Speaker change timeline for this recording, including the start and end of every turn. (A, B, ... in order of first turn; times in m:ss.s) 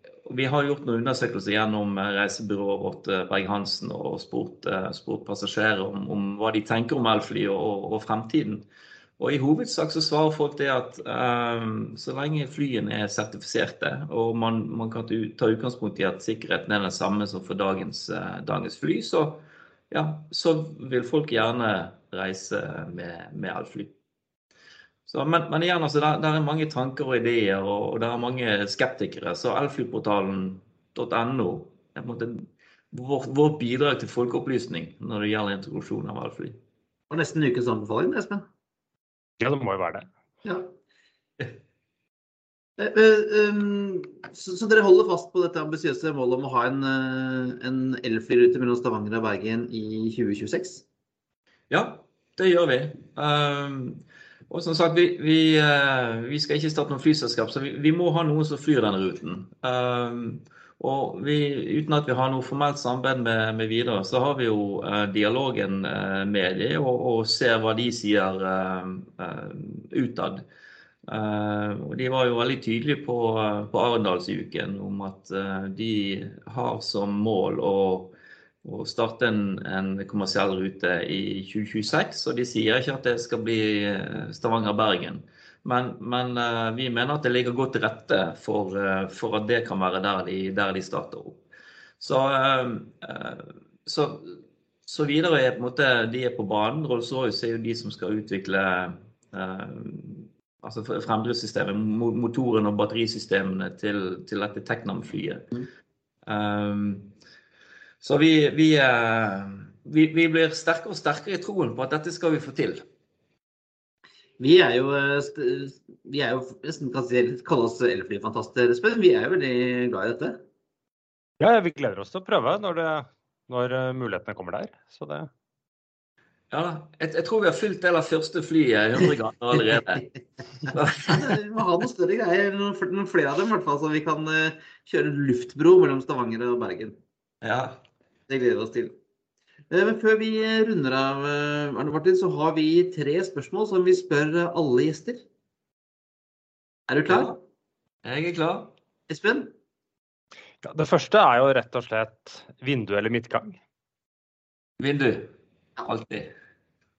0:00.2-0:08.6 A
0:09.2-0:23.9 A
0:25.1-0:36.6 A
0:37.1-0:38.4 B
0:39.4-0:40.1 C
0:42.8-0:50.8 B
0:51.7-1:10.4 A
1:11.1-1:31.4 A
1:32.0-1:45.5 A
1:46.3-1:47.1 A
1:48.0-1:52.8 A
1:54.4-2:00.4 B
2:01.4-2:05.3 C
2:06.5-2:10.1 A
2:10.7-2:11.3 A
2:11.1-2:17.0 B
2:17.4-2:17.8 A
2:18.3-2:18.9 B
2:19.7-2:25.2 B
2:26.9-2:27.3 B
2:27.1-2:27.3 A
2:28.0-2:28.7 A
2:29.1-2:29.5 B
2:30.6-2:33.6 C
2:34.8-2:35.3 A
2:35.8-2:36.3 A